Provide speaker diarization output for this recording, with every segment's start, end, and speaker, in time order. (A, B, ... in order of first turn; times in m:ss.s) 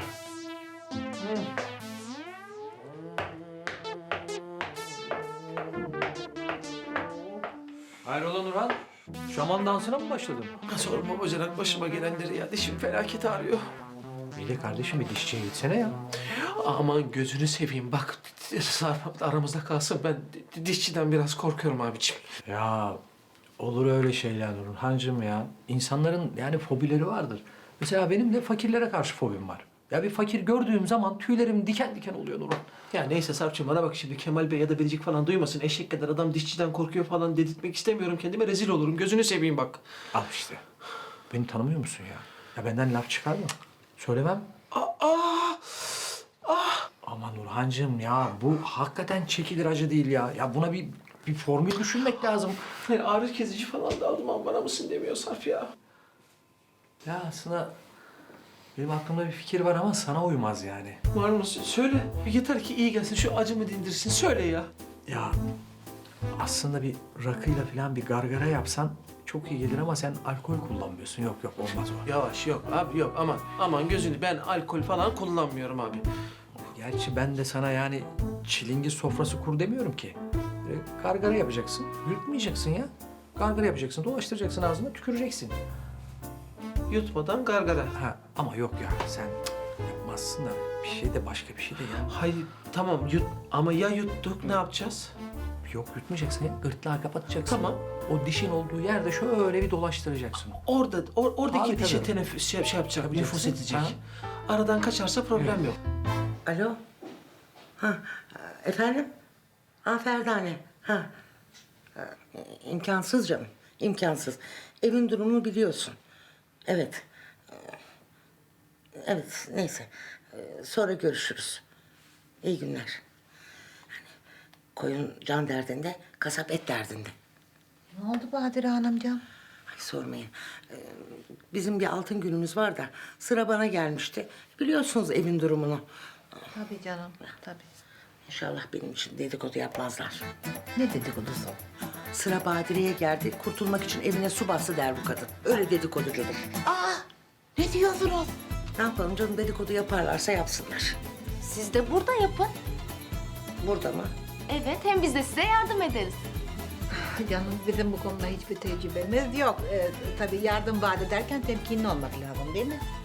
0:08.0-0:10.6 A
0:10.7-0:13.7 B
0:14.4-0:16.0 A
0:16.3-0:22.3 B
0:22.4-0:23.0 A
0:23.6-0:32.7 A
0:32.9-0:39.8 B
0:40.1-0:40.6 A
0:41.3-0:44.5 A
0:44.7-0:46.9 B
0:47.0-0:52.6 A
0:52.8-0:55.7 B
0:57.0-0:57.7 A
0:58.8-1:01.0 A
1:01.1-1:04.7 B
1:05.1-1:05.4 A
1:06.4-1:12.0 A
1:12.1-1:16.0 B
1:16.6-1:25.6 A
1:26.9-1:27.9 B
1:27.9-1:32.1 A
1:32.1-1:35.1 B
1:35.7-1:40.6 A
1:37.5-1:37.8 B
1:40.6-1:45.8 B
1:41.5-1:42.1 A
1:43.0-1:44.0 A
1:45.4-1:45.6 A
1:46.5-1:46.8 C
1:47.8-1:49.1 C
1:49.8-1:51.1 C
1:52.0-1:56.0 C
1:56.7-1:57.0 C
1:59.0-2:01.6 C
2:02.4-2:03.0 C
2:04.8-2:07.1 C
2:07.9-2:09.2 D
2:09.7-2:15.8 C
2:16.5-2:17.7 D
2:18.3-2:20.3 C
2:20.8-2:21.6 D
2:22.1-2:26.6 C
2:28.8-2:31.0 C
2:31.4-2:32.5 E
2:33.6-2:34.1 C
2:34.5-2:36.2 E
2:36.9-2:42.8 D